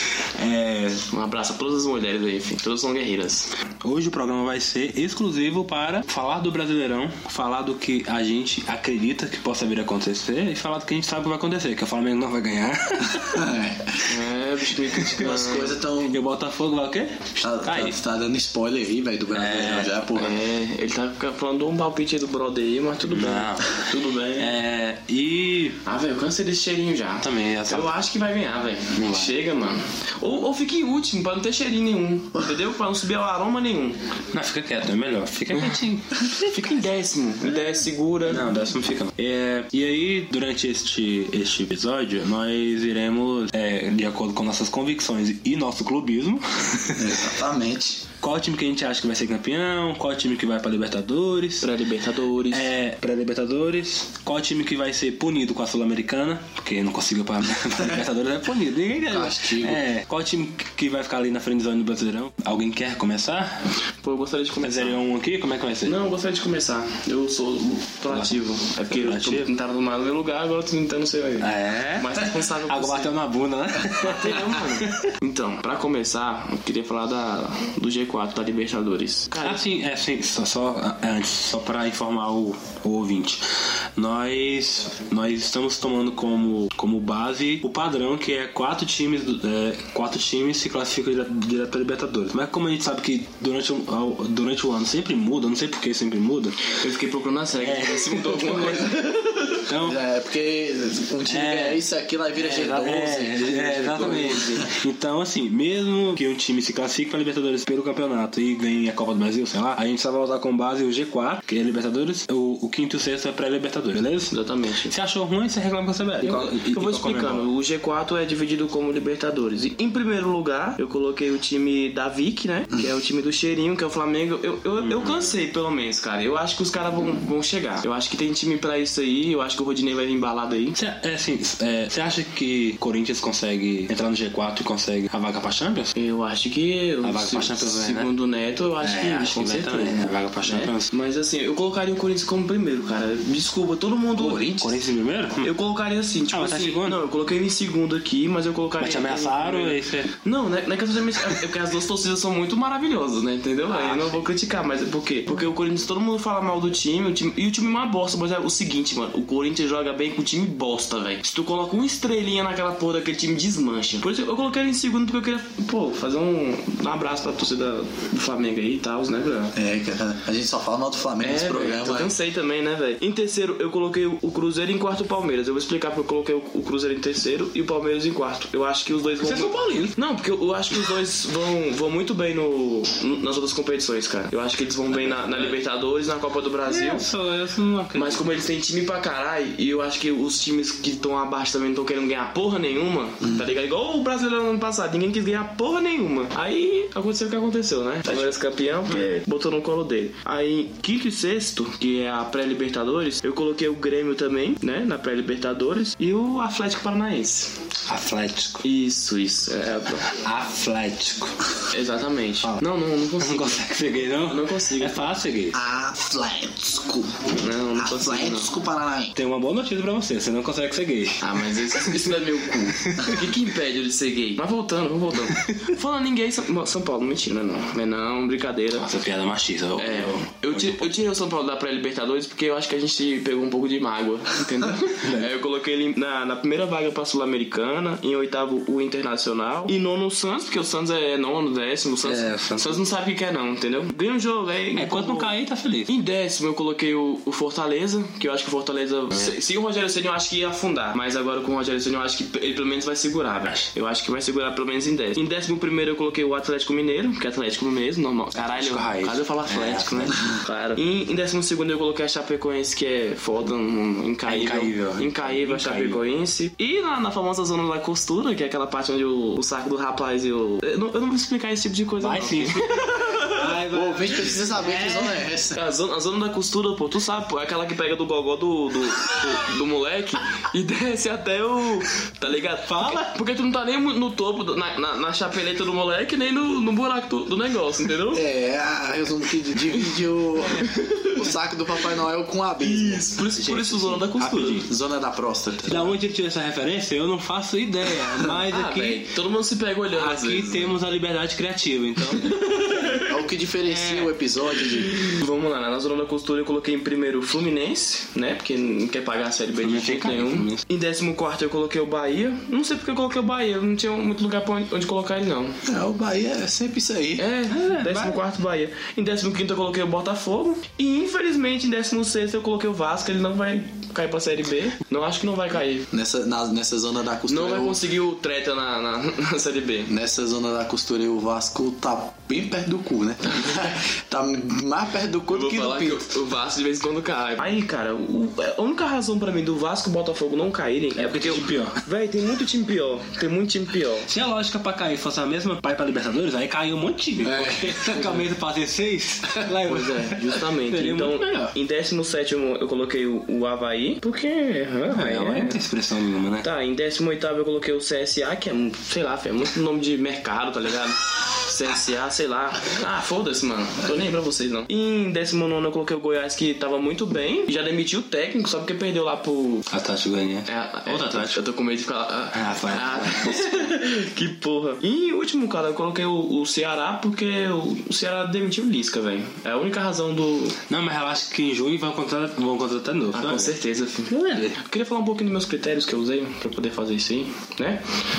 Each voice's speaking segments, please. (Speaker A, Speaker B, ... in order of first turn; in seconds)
Speaker A: 0.3-1.0, 3.8-13.5, 16.1-18.0, 19.3-19.9, 23.1-25.8, 27.2-27.9, 29.0-29.3, 34.3-36.6, 38.3-47.3, 48.2-51.7, 52.5-63.7, 64.6-66.0, 68.1-69.5, 71.4-75.1, 79.4-96.8, 97.6-99.0, 99.6-100.0, 101.3-101.8, 102.4-114.3, 114.9-117.5, 124.8-125.4, 130.8-135.9, 137.0-138.1, 138.8-140.9, 144.3-145.5, 146.3-147.0, 148.8-150.1, 153.8-154.2, 179.2-180.0, 185.1-185.5, 186.7-188.3, 198.1-198.3, 207.9-208.6, 210.0-211.5, 213.2-215.6, 219.2-223.2, 225.3-225.6, 228.7-231.0, 235.0-235.3, 242.0-242.8, 244.7-245.9, 258.4-260.3, 264.3-266.0, 272.0-275.3, 282.7-283.1, 293.3-294.7, 295.7-299.0, 299.9-302.4, 303.7-304.1, 309.6-310.6, 317.5-318.2, 341.0-341.8, 344.1-351.5, 354.9-356.5, 369.7-371.4, 372.3-373.7, 380.7-383.5, 384.1-384.6
Speaker B: 1.1-3.5, 14.1-15.8, 20.1-24.5, 25.9-34.0, 35.5-35.8, 36.3-38.5, 51.6-52.7, 64.0-65.0, 65.8-73.1, 74.0-79.6, 96.8-99.6, 103.7-104.7, 114.3-114.9, 116.2-130.8, 135.9-144.7, 145.4-169.5, 171.2-187.1, 187.9-207.5, 208.6-210.1, 211.7-215.0, 217.3-218.5, 221.2-228.9, 229.8-245.3, 245.9-273.5, 275.5-288.2, 289.6-289.9, 290.5-291.3, 292.6-294.6, 298.5-300.8, 302.2-303.1, 304.9-315.6, 317.2-325.9, 327.3-329.9, 335.3-344.1, 349.7-355.6, 356.4-369.7, 370.5-380.6, 383.1-387.8
Speaker C: 13.2-14.1, 15.1-16.2, 17.4-20.4, 47.0-48.0, 59.1-59.8, 99.7-104.7, 169.6-172.2, 215.5-219.1, 273.7-275.6, 288.1-293.1, 294.7-295.9, 302.9-305.0, 315.6-317.3, 325.9-327.8, 329.9-336.1, 347.2-348.2